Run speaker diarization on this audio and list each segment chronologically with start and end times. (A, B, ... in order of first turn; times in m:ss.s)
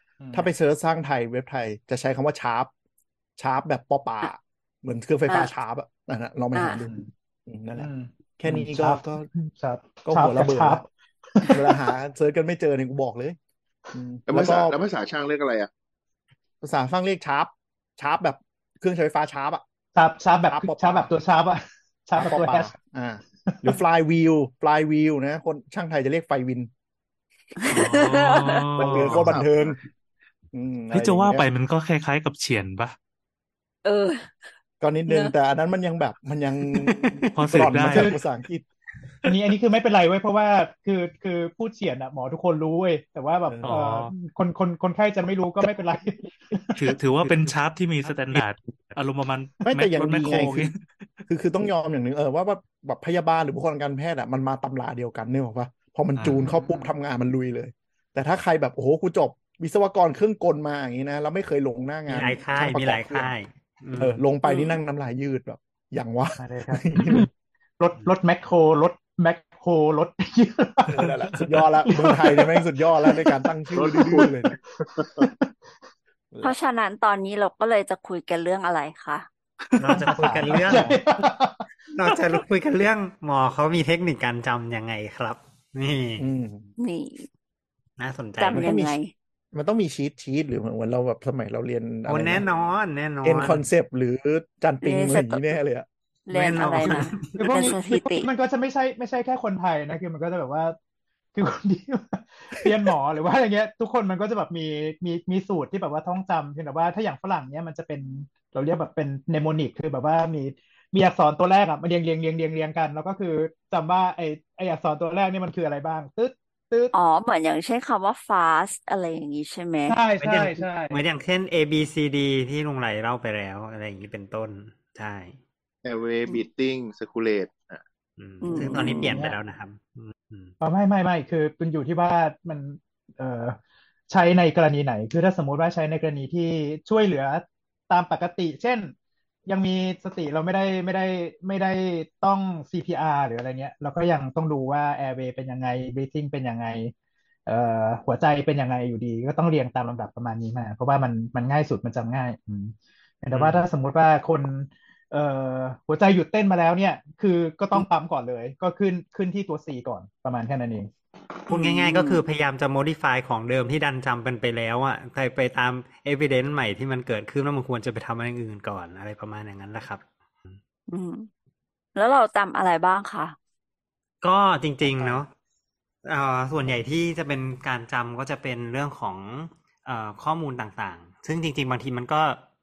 0:00.2-0:00.5 A
0:00.3-0:02.7 B
0:03.4-0:09.3 B
0:06.5-0:06.8 C
0:07.8-0:11.7 A
0:10.0-0:10.8 B
0:11.5-0:13.4 B
0:13.9-0:14.8 B
0:14.3-0:15.7 D
0:16.6-0:19.6 B
0:20.0-0:22.7 A
0:20.5-0:21.1 B
0:22.2-0:26.7 B
0:23.5-0:23.7 A
0:27.6-0:28.7 C
0:27.7-0:29.4 E
0:28.8-0:29.6 D
0:28.8-0:29.8 B
0:30.5-0:31.5 B
0:30.9-0:33.0 E
0:33.8-0:34.4 C
0:34.8-0:38.6 B
0:35.1-0:35.3 C
0:37.3-0:38.1 E
0:37.9-0:38.2 A
0:39.2-0:47.0 A
0:43.6-0:44.1 E
0:46.8-0:50.8 E
0:47.2-0:47.5 B
0:48.1-0:48.5 B
0:49.7-0:50.7 B
0:51.3-1:03.3 B
0:56.2-0:56.4 E
0:56.3-0:56.9 A
1:02.1-1:04.2 F
1:04.0-1:07.3 B
1:04.5-1:04.8 C
1:06.4-1:07.3 A
1:07.8-1:13.4 A
1:10.9-1:14.6 B
1:13.7-1:15.3 D
1:15.0-1:15.5 A
1:16.4-1:19.3 C
1:19.7-1:21.6 A
1:19.8-1:20.9 F
1:21.9-1:26.3 F
1:26.2-1:26.7 B
1:26.8-1:27.3 C
1:28.0-1:28.7 F
1:28.4-1:29.1 C
1:28.5-1:29.0 B
1:29.5-1:32.4 B
1:32.1-1:33.7 F
1:33.2-1:35.9 B
1:34.8-1:35.5 C
1:36.3-1:38.3 C
1:36.3-1:37.5 F
1:37.4-1:40.8 A
1:41.4-1:56.9 A
1:56.9-2:00.0 C
1:59.9-2:01.0 A
2:00.2-2:05.4 F
2:05.8-2:07.8 D
2:08.2-2:10.5 F
2:08.4-2:09.3 C
2:08.6-2:09.4 A
2:10.6-2:13.6 A
2:14.1-2:18.9 A
2:19.5-2:26.9 A
2:27.5-2:40.9 A
2:33.3-2:33.6 F
2:41.5-2:42.2 C
2:41.5-2:50.6 F
2:50.9-2:51.3 C
2:52.0-2:53.4 C
2:54.2-2:55.3 F
2:54.9-2:55.2 B
2:56.0-3:02.4 F